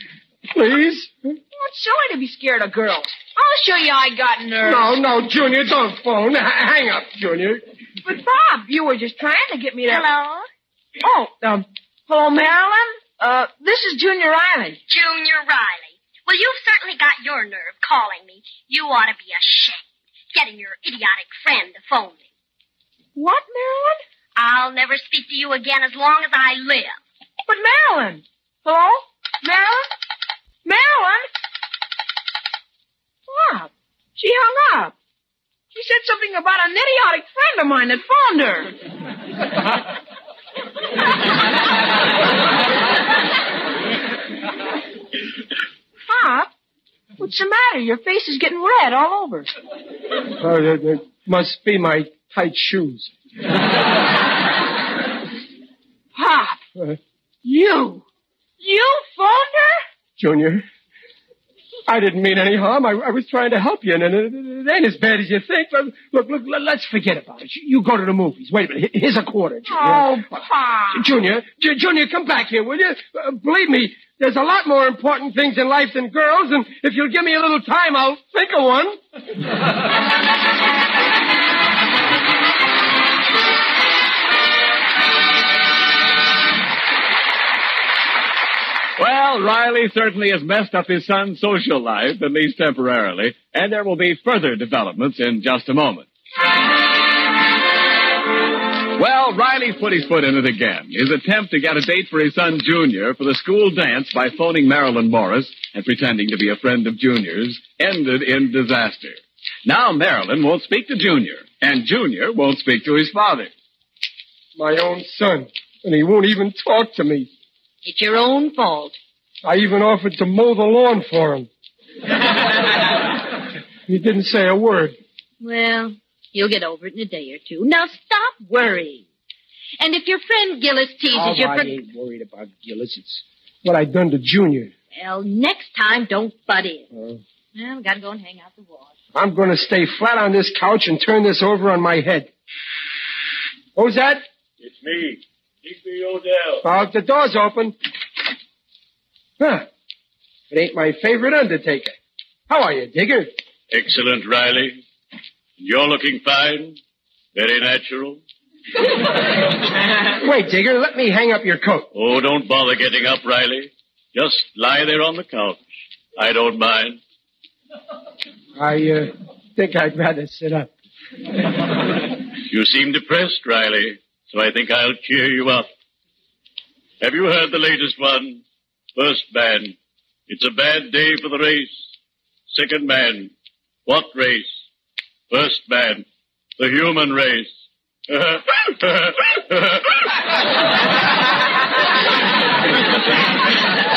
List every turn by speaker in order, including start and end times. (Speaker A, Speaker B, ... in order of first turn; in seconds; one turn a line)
Speaker A: 0.5-1.4
Speaker B: 1.5-4.9
Speaker A: 4.6-7.6
Speaker B: 8.0-10.1
Speaker C: 9.9-10.5
Speaker B: 11.0-14.8
Speaker C: 14.9-22.2
Speaker B: 23.1-24.0
Speaker C: 24.4-27.0
Speaker B: 27.5-29.9
Speaker B: 30.6-31.3
Speaker B: 33.3-34.9
Speaker B: 35.7-38.7
Speaker B: 46.0-46.5
Speaker B: 47.2-49.5
Speaker A: 50.4-53.1
Speaker B: 56.1-56.6
Speaker B: 57.4-58.0
Speaker B: 58.6-59.8
Speaker A: 60.2-60.6
Speaker A: 61.9-70.4
Speaker B: 69.7-71.1
Speaker A: 70.9-79.0
Speaker D: 89.0-96.1
Speaker D: 99.0-113.5
Speaker A: 114.5-117.3
Speaker E: 117.8-119.0
Speaker A: 119.4-121.5
Speaker A: 123.8-125.0
Speaker E: 125.4-129.0
Speaker E: 129.8-131.7
Speaker A: 131.1-134.7
Speaker E: 134.9-136.9
Speaker A: 136.9-137.2
Speaker E: 137.5-138.9
Speaker A: 139.1-142.3
Speaker A: 143.8-144.2
Speaker F: 144.6-146.6
Speaker A: 146.6-147.7
Speaker A: 149.4-149.7
Speaker A: 150.5-151.9
Speaker A: 152.5-153.3
Speaker F: 153.7-154.8
Speaker F: 155.6-156.8
Speaker F: 157.3-158.2
Speaker A: 160.2-161.9
Speaker F: 161.9-167.0
Speaker A: 168.6-170.7
Speaker F: 172.5-175.7
Speaker F: 177.0-178.4
Speaker F: 178.9-179.8
Speaker F: 180.3-181.8
Speaker F: 182.5-183.3
Speaker F: 183.8-184.6
Speaker F: 185.3-186.0
Speaker F: 186.6-187.5
Speaker F: 188.1-189.9